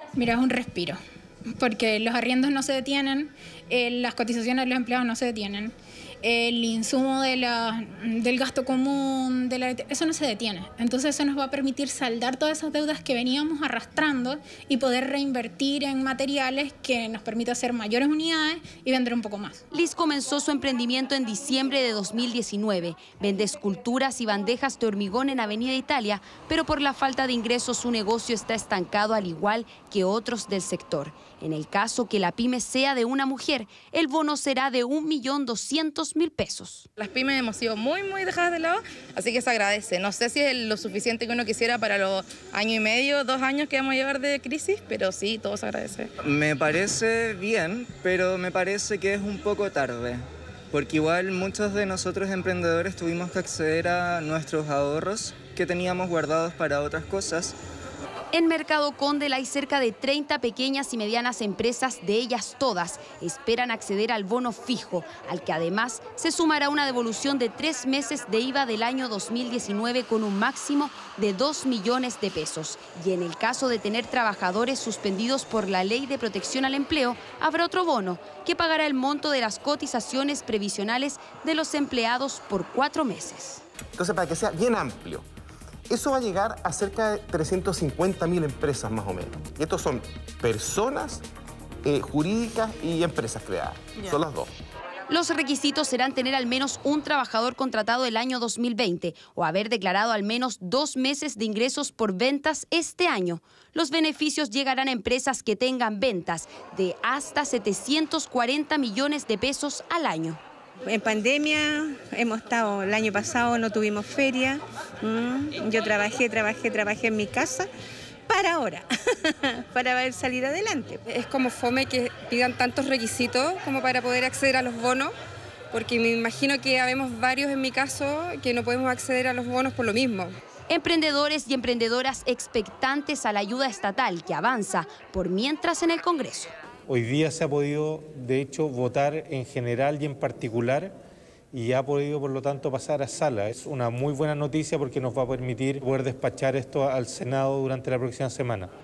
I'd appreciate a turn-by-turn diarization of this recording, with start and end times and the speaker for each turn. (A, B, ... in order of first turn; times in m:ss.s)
0:00.2-0:01.0 A
0:01.6-0:19.6 A
0:19.7-0:36.9 B
0:37.0-0:46.1 C
0:46.2-0:57.5 D
0:58.3-1:23.6 B
1:24.0-1:25.2 E
1:25.9-1:31.2 E
1:31.8-1:34.5 E
1:35.1-1:50.4 B
1:50.9-1:57.7 F
1:58.3-2:01.0 F
2:01.1-2:05.1 G
2:05.7-2:10.3 G
2:10.7-2:16.5 B
2:16.9-2:20.9 H
2:21.5-2:28.7 H